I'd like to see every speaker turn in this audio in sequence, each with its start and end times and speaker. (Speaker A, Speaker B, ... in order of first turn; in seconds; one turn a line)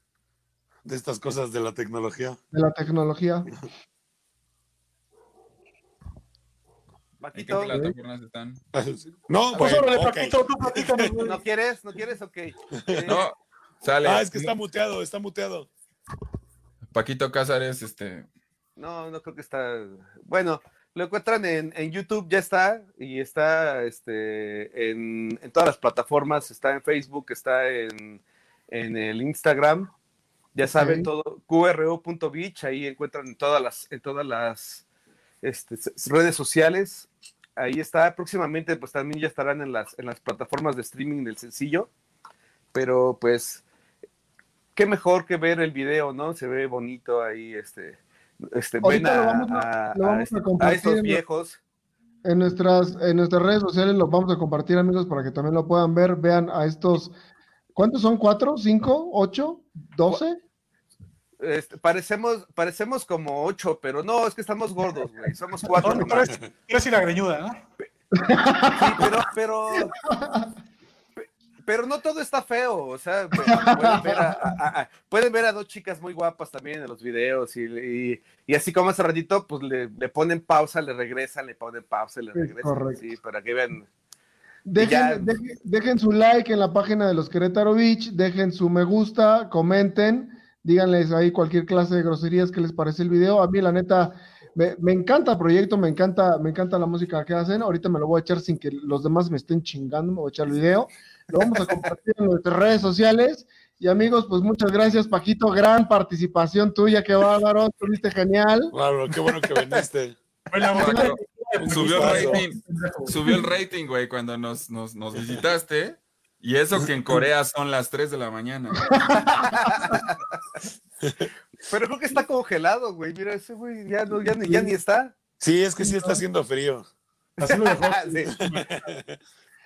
Speaker A: 0.8-2.4
Speaker B: 2.5-3.5
Speaker C: 7.2-7.8
Speaker D: 7.3-8.6
Speaker B: 7.7-7.9
Speaker A: 8.7-11.2
Speaker E: 9.5-11.4
Speaker C: 11.2-13.3
Speaker A: 12.8-13.2
Speaker D: 13.1-14.5
Speaker A: 14.0-15.7
Speaker D: 16.9-18.3
Speaker C: 18.8-29.9
Speaker C: 30.6-34.8
Speaker B: 30.7-31.1
Speaker C: 35.4-41.9
Speaker C: 42.7-43.6
Speaker C: 44.8-51.6
Speaker B: 48.8-51.2
Speaker B: 52.2-57.1
Speaker B: 57.8-60.4
Speaker C: 61.4-66.3
Speaker E: 65.8-67.6
Speaker B: 68.2-69.1
Speaker C: 68.8-70.0
Speaker B: 70.0-70.5
Speaker C: 71.2-83.9
Speaker B: 73.5-74.6
Speaker B: 82.3-83.0
Speaker B: 84.7-108.7
Speaker C: 84.8-85.4
Speaker A: 108.7-110.2
Speaker E: 110.5-113.4
Speaker D: 110.8-119.0
Speaker B: 110.8-111.1
Speaker A: 111.6-112.4
Speaker B: 118.9-120.0
Speaker C: 119.5-120.0
Speaker C: 121.7-125.2
Speaker A: 125.4-126.9
Speaker E: 125.8-126.2
Speaker E: 127.4-128.8
Speaker C: 127.4-128.3
Speaker A: 128.4-129.2